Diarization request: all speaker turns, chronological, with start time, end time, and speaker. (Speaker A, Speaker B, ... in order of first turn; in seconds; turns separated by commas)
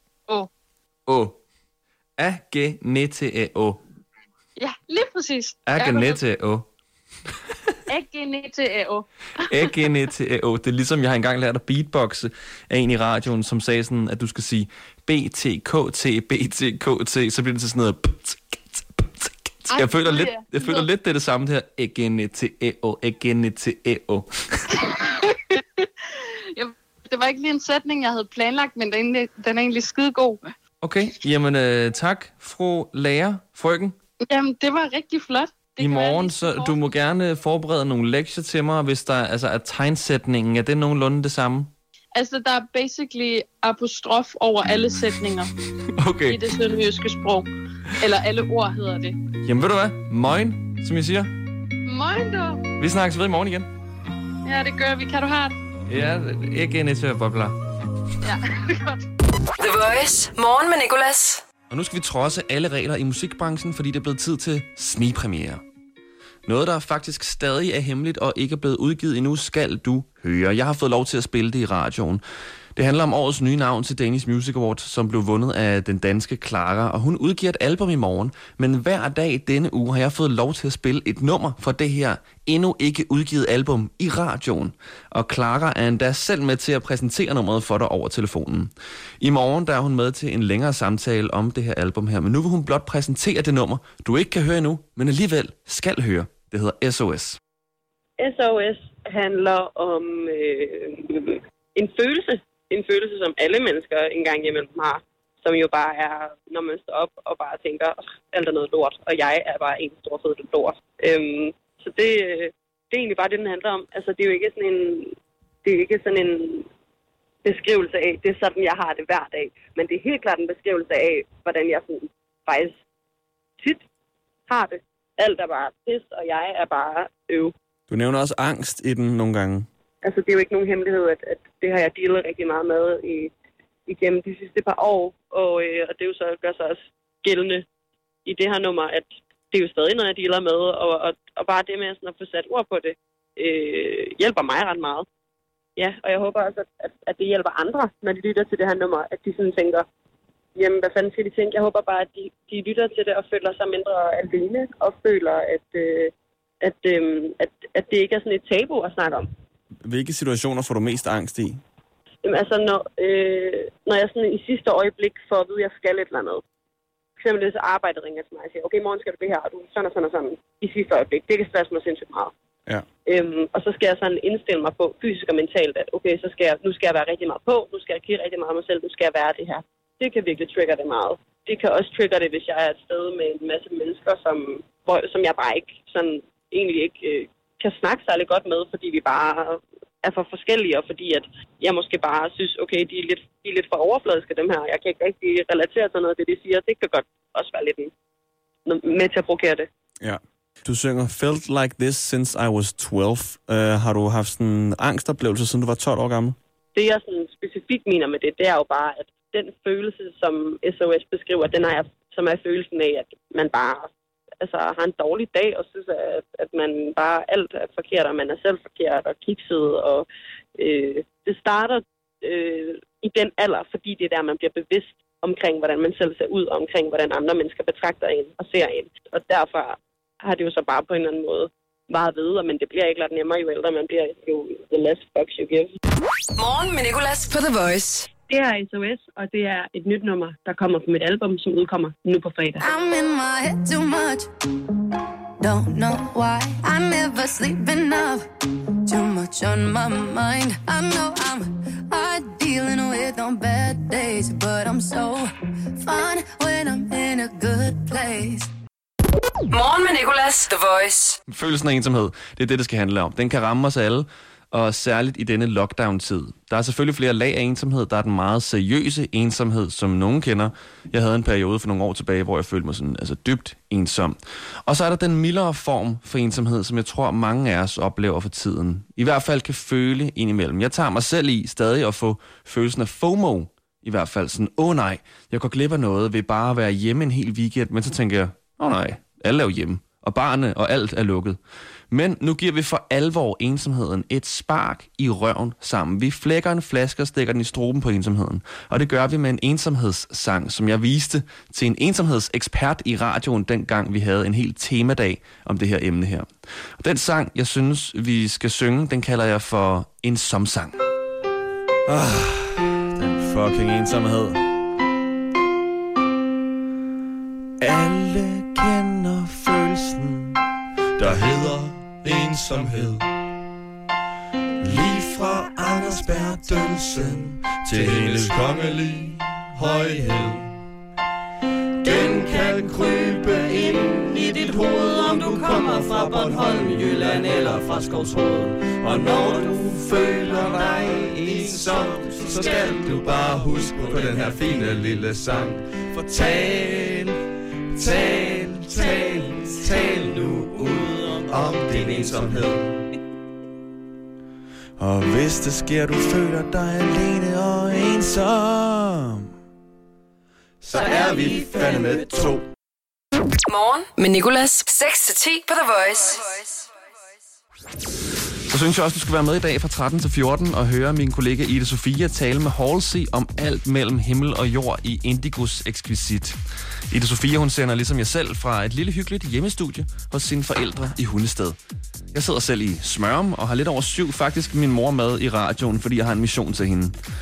Speaker A: 1.1-1.4, Speaker A: 2.2-3.8, Speaker B: 4.6-6.2, Speaker A: 5.7-6.7, Speaker B: 7.9-9.7, Speaker A: 9.4-24.8, Speaker B: 19.7-20.9, Speaker B: 24.8-30.5, Speaker A: 30.8-34.0, Speaker B: 34.2-36.8, Speaker A: 35.8-41.7, Speaker B: 42.1-45.5, Speaker A: 45.9-46.4, Speaker B: 46.3-49.2, Speaker A: 49.4-51.3, Speaker B: 51.9-52.6, Speaker A: 52.8-53.7, Speaker B: 54.5-55.6, Speaker A: 55.9-57.6, Speaker B: 58.2-59.0, Speaker C: 59.6-61.4, Speaker A: 61.7-65.6, Speaker A: 66.5-72.2, Speaker A: 72.8-97.4, Speaker D: 98.2-116.7, Speaker D: 117.4-122.8, Speaker D: 123.6-123.8, Speaker D: 124.5-127.5, Speaker A: 127.9-129.7, Speaker D: 130.0-133.3, Speaker D: 133.9-137.7, Speaker D: 138.2-145.1, Speaker D: 145.8-149.8, Speaker D: 150.6-159.3, Speaker A: 159.8-161.6, Speaker D: 162.2-166.4, Speaker D: 167.2-172.3, Speaker D: 173.1-197.9, Speaker D: 198.7-199.7, Speaker A: 200.0-206.4, Speaker D: 206.7-213.9, Speaker D: 214.4-220.1, Speaker D: 220.6-235.7, Speaker C: 236.3-238.1, Speaker D: 238.3-242.6, Speaker E: 242.6-244.3, Speaker E: 245.4-248.3, Speaker E: 248.8-258.5, Speaker C: 259.5-261.2, Speaker A: 261.3-291.4, Speaker A: 291.9-310.8, Speaker A: 311.9-314.5, Speaker A: 317.6-320.4, Speaker A: 321.0-323.1, Speaker A: 324.6-330.5, Speaker A: 331.8-347.2, Speaker A: 347.8-352.6, Speaker A: 354.8-359.3, Speaker A: 360.6-362.4, Speaker C: 363.5-366.6, Speaker A: 368.5-376.4, Speaker A: 376.9-381.6, Speaker A: 382.1-387.0